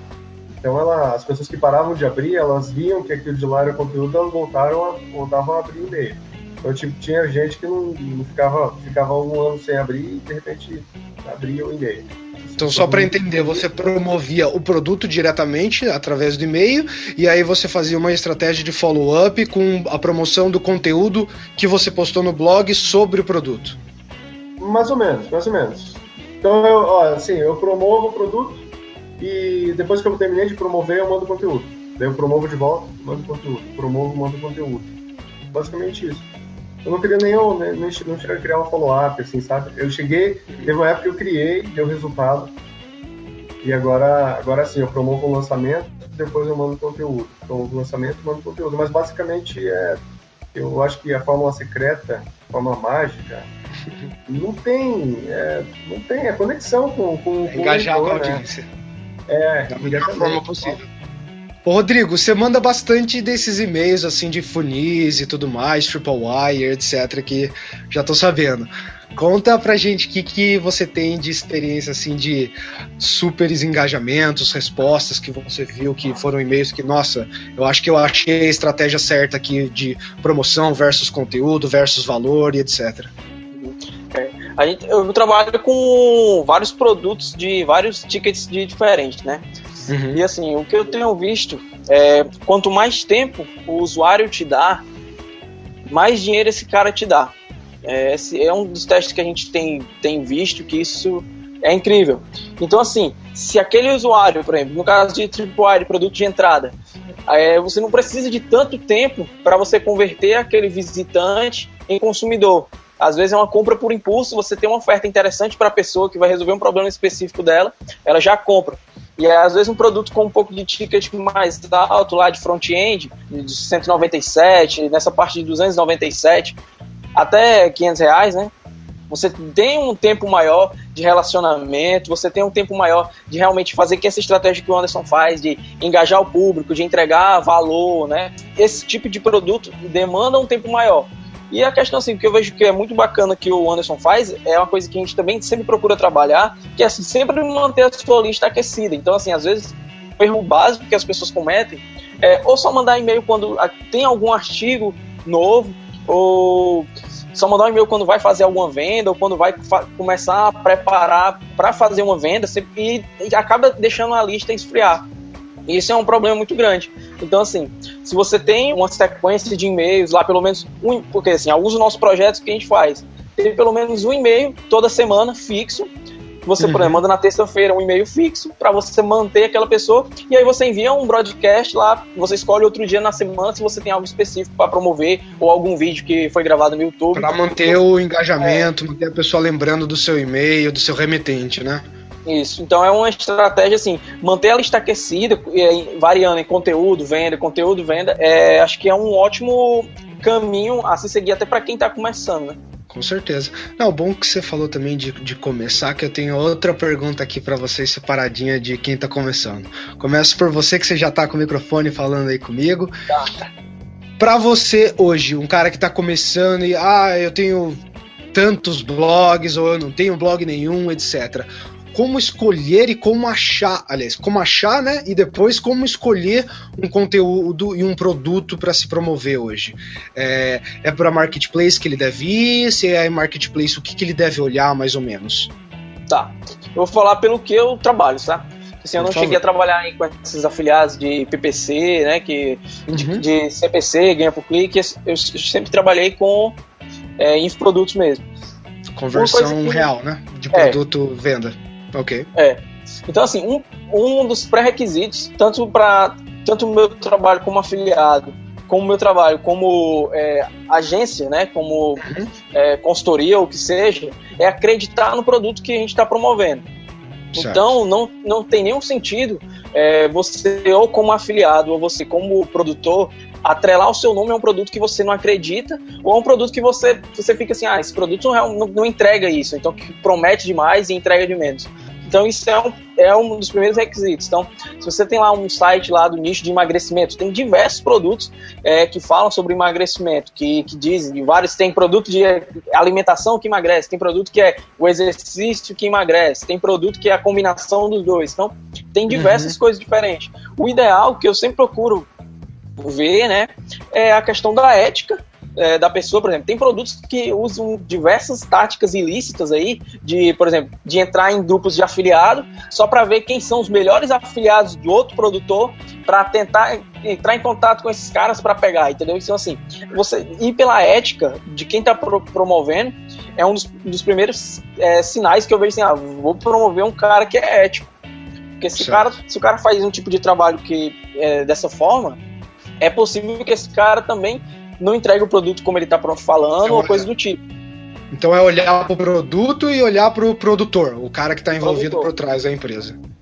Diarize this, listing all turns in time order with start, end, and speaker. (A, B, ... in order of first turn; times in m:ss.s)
0:00.6-0:13.6 A
0:12.6-0:23.8 B
0:24.6-0:28.7 A
0:29.2-0:34.9 A
0:35.5-0:36.2 A
0:36.8-0:42.5 A
0:43.6-0:50.0 A
0:50.5-0:53.5 A
0:54.3-0:58.4 A
0:57.5-0:58.7 B
0:59.3-1:00.8 A
0:59.7-1:00.9 B
1:01.6-1:23.1 B
1:23.5-1:29.4 C
1:29.9-1:30.2 B
1:30.1-1:34.8 C
1:35.9-1:37.3 C
1:37.8-1:46.8 C
1:47.3-2:06.6 C
2:07.2-2:08.5 C
2:09.1-2:45.0 C
2:45.7-2:55.9 C
2:56.4-3:07.8 C
2:56.6-2:57.0 B
3:07.1-3:11.8 B
3:08.4-3:08.7 C
3:12.3-3:22.6 C
3:22.9-3:32.9 B
3:33.1-3:33.5 C
3:34.2-3:37.8 B
3:38.3-3:55.5 B
3:56.1-4:06.6 C
3:59.0-3:59.4 B
4:02.9-4:03.2 B
4:07.2-4:08.3 C
4:09.0-4:12.3 B
4:09.1-4:09.8 C
4:10.5-4:10.8 C
4:12.4-4:26.7 C
4:27.3-4:27.7 B
4:27.4-5:02.1 C
4:59.1-4:59.6 B
5:02.8-5:27.9 C
5:28.6-5:32.2 C
5:28.8-5:29.1 B
5:32.8-5:37.4 C
5:36.6-5:37.1 B
5:38.1-5:43.0 B
5:41.6-5:42.1 C